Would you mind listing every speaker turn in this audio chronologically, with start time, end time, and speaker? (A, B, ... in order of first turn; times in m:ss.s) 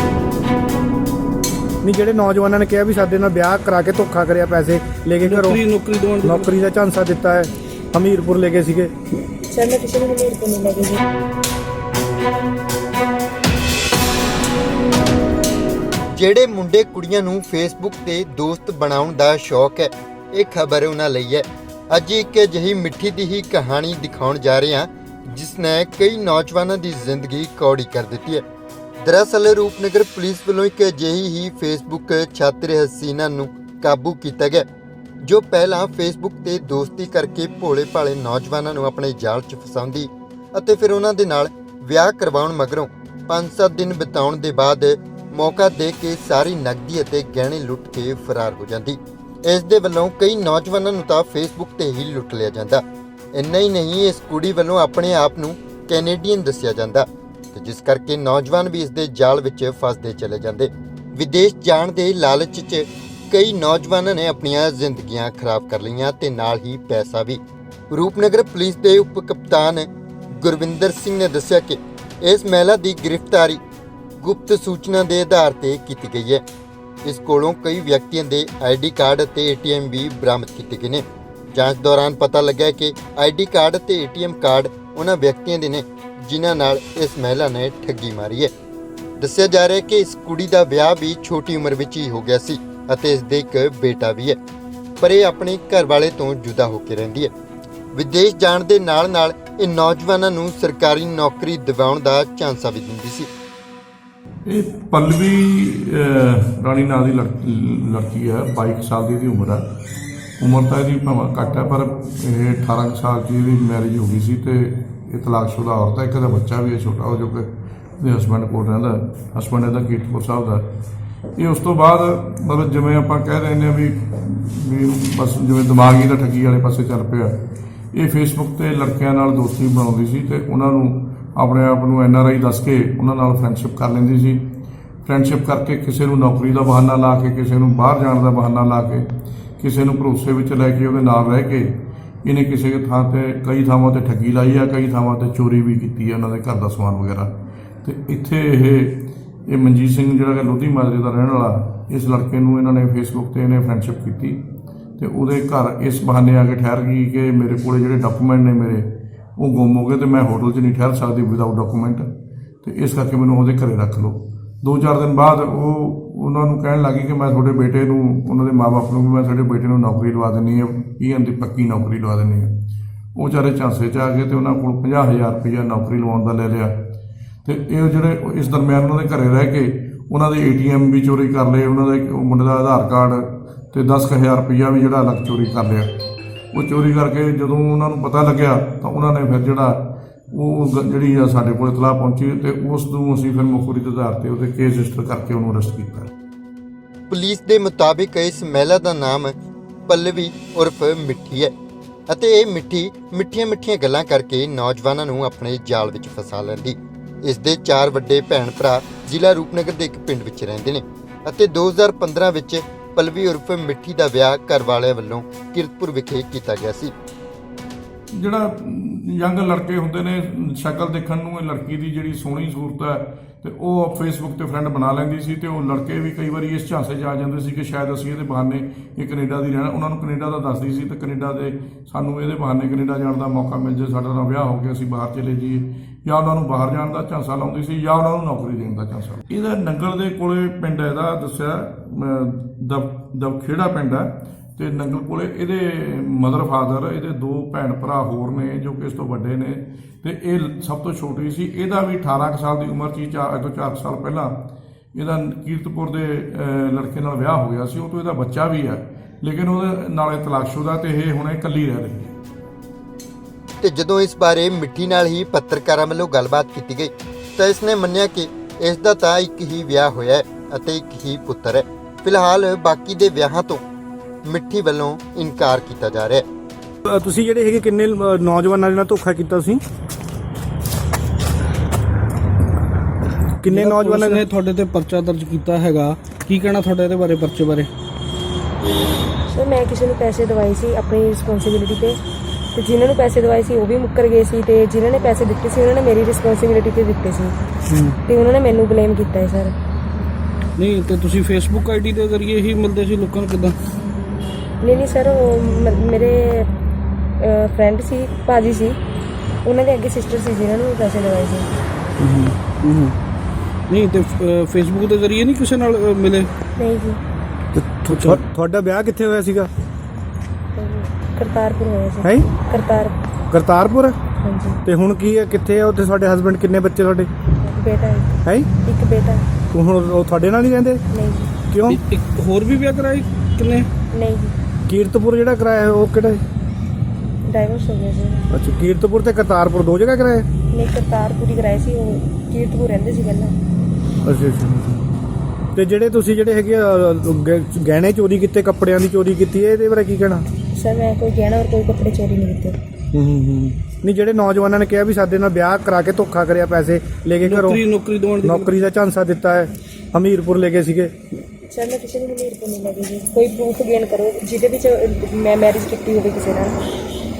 0:01.8-0:05.6 A
0:05.2-0:06.5 B
0:06.2-0:08.9 A
0:09.5-0:11.0 C
0:16.1-0:28.4 D
0:29.0-0:34.6 D
0:35.2-0:52.8 D
0:53.3-1:13.6 D
1:14.2-1:16.4 D
1:17.0-1:28.5 D
1:29.2-1:34.4 D
1:35.0-1:37.3 D
1:37.9-1:43.3 D
1:44.4-1:49.6 E
1:50.4-2:00.6 E
2:01.3-2:07.3 E
2:07.9-2:14.4 E
2:15.0-2:19.0 E
2:19.6-2:27.3 E
2:27.8-2:34.4 E
2:35.0-2:42.1 E
2:42.6-2:52.5 E
2:53.1-2:56.8 E
2:57.4-3:05.9 E
3:06.5-3:16.1 E
3:17.1-3:19.3 D
3:19.9-3:21.5 D
3:22.1-3:36.9 D
3:38.1-4:14.3 E
4:14.9-4:22.2 E
4:23.6-4:33.6 D
4:34.2-4:36.2 D
4:36.8-4:39.6 A
4:43.4-4:44.2 A
4:43.5-4:47.7 B
4:49.3-4:52.0 C
4:52.5-4:57.4 C
4:57.7-4:58.0 B
4:58.1-4:59.5 C
5:00.6-5:03.6 B
5:04.6-5:06.5 C
5:07.2-5:08.8 C
5:09.4-5:11.5 C
5:12.0-5:13.0 B
5:13.7-5:16.3 B
5:16.6-5:17.0 C
5:17.6-5:19.5 A
5:17.8-5:18.2 B
5:20.5-5:22.9 C
5:22.0-5:22.3 A
5:23.3-5:24.0 A
5:24.2-5:24.6 C
5:24.6-5:27.1 A
5:27.4-5:29.2 C
5:29.5-5:30.8 A
5:30.9-5:31.3 C
5:31.5-5:31.8 A
5:31.6-5:33.7 B
5:33.9-5:34.3 C
5:34.7-5:36.2 A
5:37.2-5:38.2 C
5:38.3-5:40.3 A
5:40.5-5:43.3 C
5:44.0-5:44.8 A
5:45.5-5:50.2 A
5:50.5-5:52.6 C
5:52.9-5:57.6 A
5:57.2-5:58.6 B
5:58.2-6:00.9 A
6:01.4-6:06.6 C